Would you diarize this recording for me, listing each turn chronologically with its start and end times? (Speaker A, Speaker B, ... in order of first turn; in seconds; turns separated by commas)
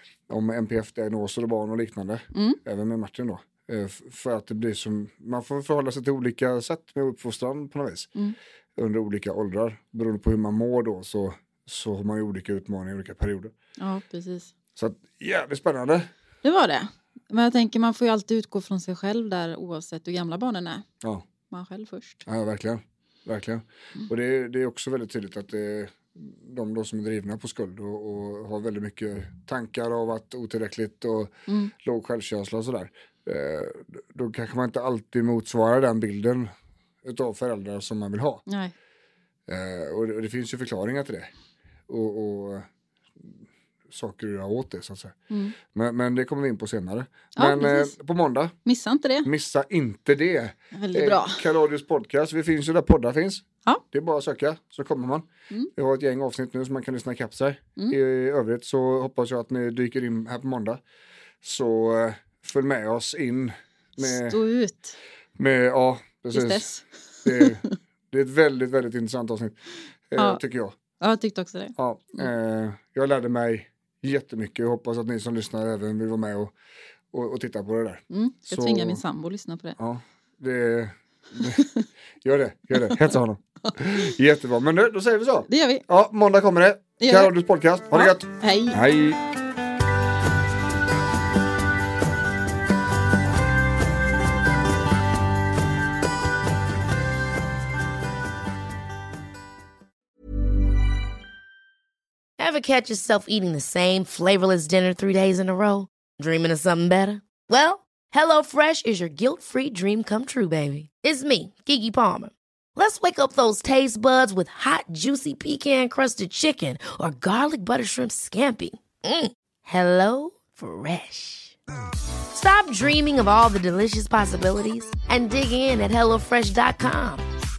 Speaker A: 0.3-8.1, Speaker B: 2.3-2.6, Speaker A: 8.8-13.5, Speaker B: 13.8-14.5, Speaker A: 14.8-16.1, Speaker B: 16.4-20.8, Speaker B: 21.5-22.2, Speaker A: 22.3-36.5, Speaker A: 37.0-38.4, Speaker B: 38.5-38.7, Speaker A: 39.5-41.3, Speaker A: 41.9-42.7, Speaker A: 43.2-45.2, Speaker B: 45.3-45.6, Speaker A: 45.7-48.5, Speaker B: 47.4-48.0, Speaker B: 48.7-49.3, Speaker A: 49.2-60.8, Speaker B: 50.7-51.4, Speaker A: 61.4-64.4, Speaker B: 64.0-65.0, Speaker A: 65.4-66.7, Speaker B: 66.3-67.7, Speaker A: 67.2-70.8, Speaker B: 71.0-72.3, Speaker A: 71.8-76.5, Speaker A: 77.1-79.0, Speaker B: 78.1-79.8, Speaker A: 79.8-81.6, Speaker B: 81.4-81.9, Speaker A: 82.2-89.2, Speaker B: 82.7-83.2, Speaker B: 85.5-85.8, Speaker B: 87.0-87.3, Speaker B: 87.9-88.8, Speaker C: 102.4-121.6, Speaker C: 122.3-127.3